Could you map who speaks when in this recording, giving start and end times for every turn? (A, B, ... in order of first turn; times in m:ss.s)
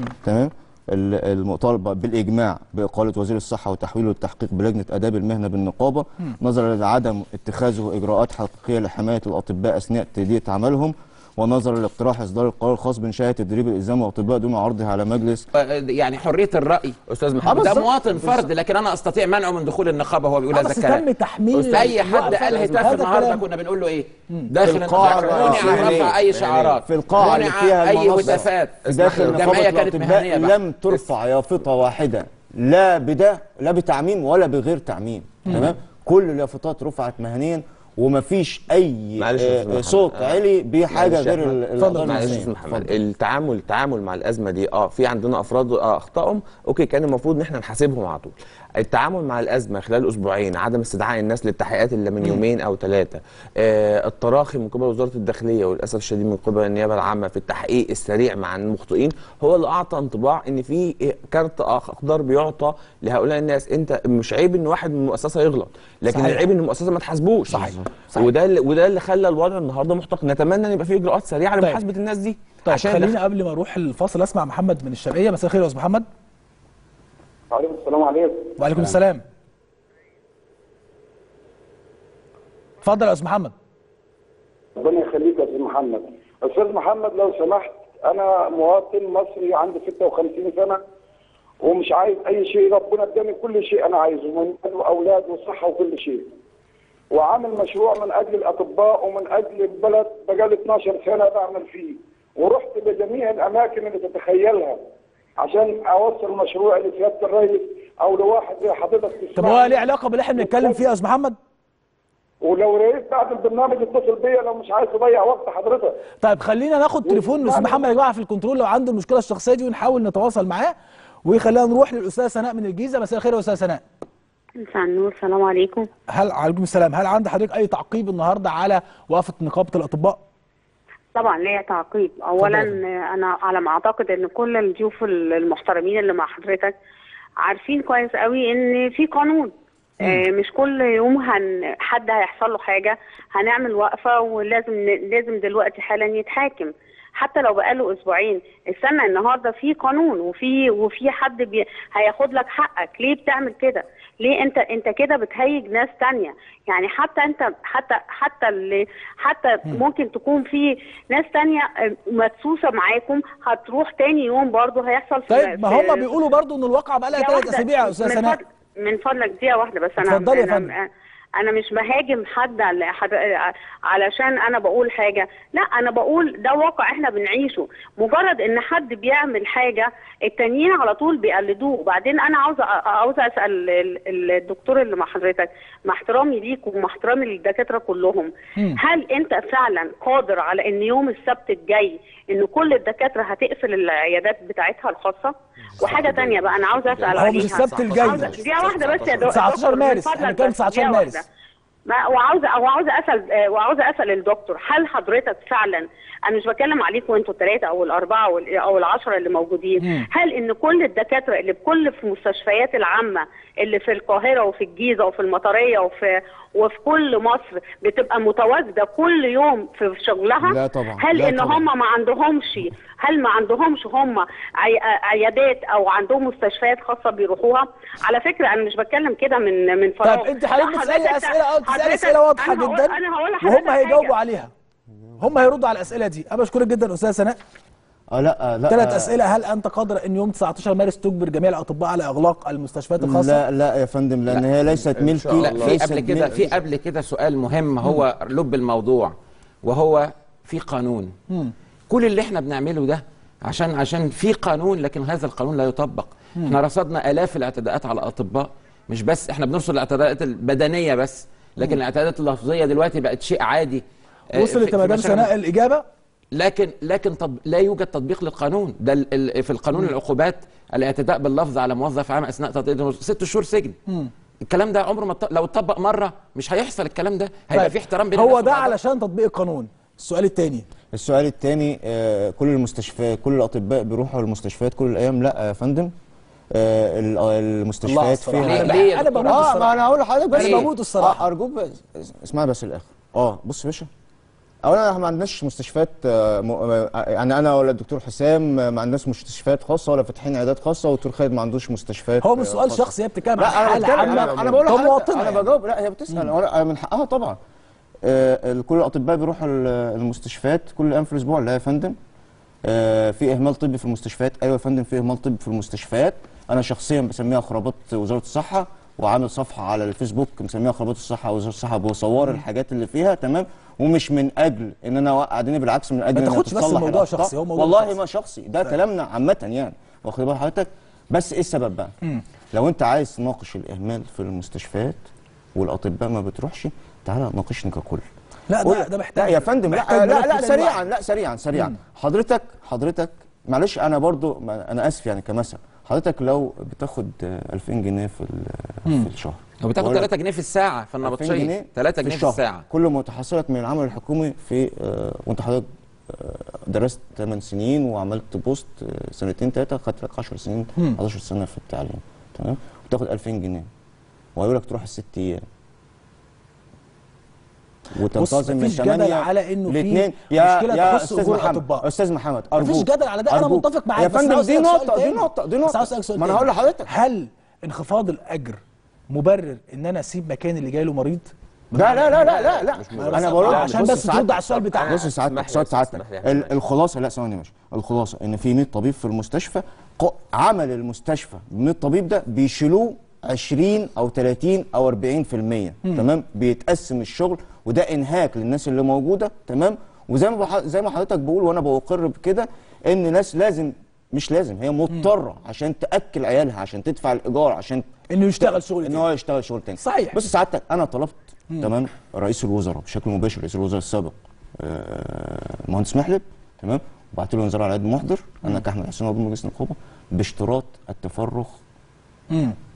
0:00.2-0:15.5 A
0:15.5-0:21.1 B
0:17.1-0:18.4 C
0:17.4-0:17.9 A
0:20.5-0:23.4 D
0:21.5-0:23.1 C
0:21.7-0:30.6 B
0:24.6-0:26.2 A
0:24.6-0:27.4 C
0:26.8-0:43.0 A
0:28.2-0:29.6 C
0:39.2-1:13.2 C
0:41.8-0:42.4 D
1:06.1-1:06.4 D
1:07.5-1:08.3 D
1:07.5-1:07.8 A
1:12.7-1:16.1 D
1:17.5-1:18.6 E
1:18.6-1:19.2 D
1:22.8-1:23.5 D
1:24.8-1:30.8 E
1:31.6-1:36.3 E
1:37.1-1:44.8 E
1:45.4-1:49.8 E
1:49.4-1:51.4 D
1:50.4-1:50.8 E
1:52.4-1:56.0 E
1:56.2-2:03.8 D
1:57.0-1:57.8 E
2:04.6-2:05.9 F
2:06.1-2:10.2 D
2:11.2-2:16.8 F
2:12.4-2:12.8 D
2:17.4-2:46.1 F
2:45.3-2:48.4 D
2:47.2-2:50.9 F
2:50.0-2:50.7 D
2:51.4-3:21.2 F
3:15.8-3:19.4 C
3:17.2-3:18.4 D
3:19.2-3:21.2 D
3:21.9-3:54.1 F
3:29.8-3:30.1 D
3:40.4-3:41.7 A
3:50.0-3:54.5 D
3:55.2-3:57.4 D
3:58.1-3:59.2 A
3:58.7-4:03.4 D
4:03.0-4:06.4 A
4:04.7-4:06.6 C
4:05.4-4:11.1 B
4:11.9-4:25.3 B
4:24.3-4:25.9 D
4:26.3-4:33.8 B
4:34.5-4:38.8 B
4:37.5-4:40.7 D
4:40.9-4:45.9 A
4:46.5-4:53.9 A
4:47.8-4:49.7 D
4:48.4-4:49.7 B
4:50.3-4:51.2 D
4:50.4-4:50.7 B
4:54.6-5:07.4 A
5:02.2-5:05.5 D
5:03.9-5:04.6 C
5:08.0-5:12.0 A
5:12.6-5:31.9 A
5:26.1-5:27.9 D
5:32.5-5:35.0 A
5:35.6-5:38.0 A
5:38.5-5:40.8 D
5:38.6-5:50.1 A
5:49.6-5:52.6 B
5:51.0-6:03.7 A
6:04.4-6:05.5 A
6:08.0-6:16.9 A
6:08.1-6:11.9 D
6:12.6-6:22.4 D
6:21.8-6:47.8 A
6:22.1-6:26.6 C
6:23.0-6:25.0 D
6:48.1-6:49.1 D
6:48.4-7:01.6 A
6:49.8-6:50.2 D
7:02.3-7:02.6 D